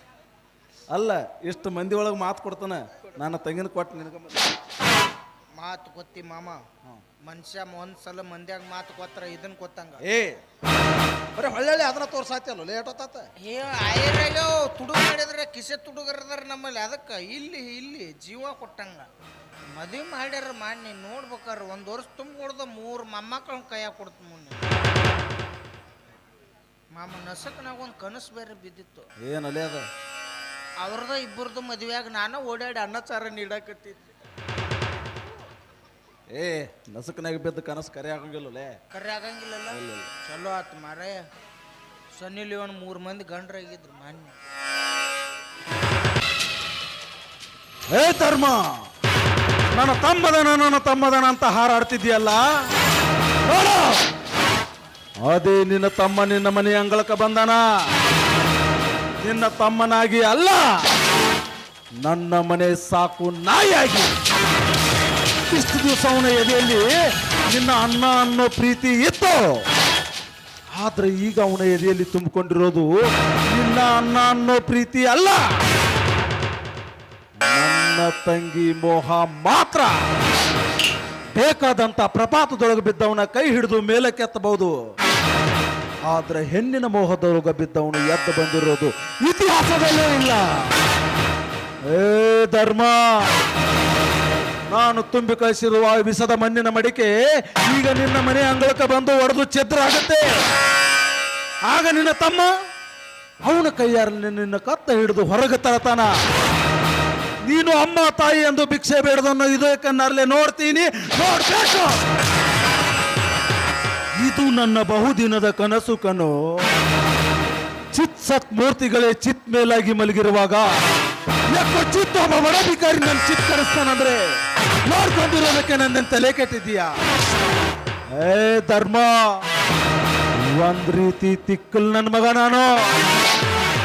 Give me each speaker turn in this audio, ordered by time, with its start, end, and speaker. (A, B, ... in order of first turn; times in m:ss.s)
0:00.9-0:04.5 A
0:05.6-0:06.6 B
0:07.2-0:10.0 B
0:10.0-0:10.4 A
0:11.3-0:13.3 A
0:13.4-0:19.1 B
0:19.7-0:24.8 B
0:26.9-0:29.1 B
0:29.2-0:29.8 A
0:30.8-0:34.0 B
0:36.3-0:38.7 A
0:38.9-0:41.2 B
0:39.7-0:40.1 A
0:42.1-0:44.4 B
0:47.9-0:48.8 A
0:49.7-0:52.4 A
0:53.4-0:54.0 A
0:55.2-0:57.6 A
0:59.2-1:00.7 A
1:02.0-1:04.1 A
1:05.5-1:09.4 A
1:10.7-1:12.9 A
1:13.5-1:15.4 A
1:17.4-1:20.0 A
1:21.3-1:24.8 A
1:26.1-1:30.7 A
1:31.9-1:33.0 A
1:34.7-1:40.3 A
1:41.6-1:42.5 A
1:43.4-1:46.1 A
1:47.4-1:52.0 A
1:54.2-1:56.6 A
1:57.9-2:00.7 A
2:01.5-2:04.2 A
2:04.9-2:06.9 A
2:08.1-2:09.2 A
2:10.4-2:12.8 A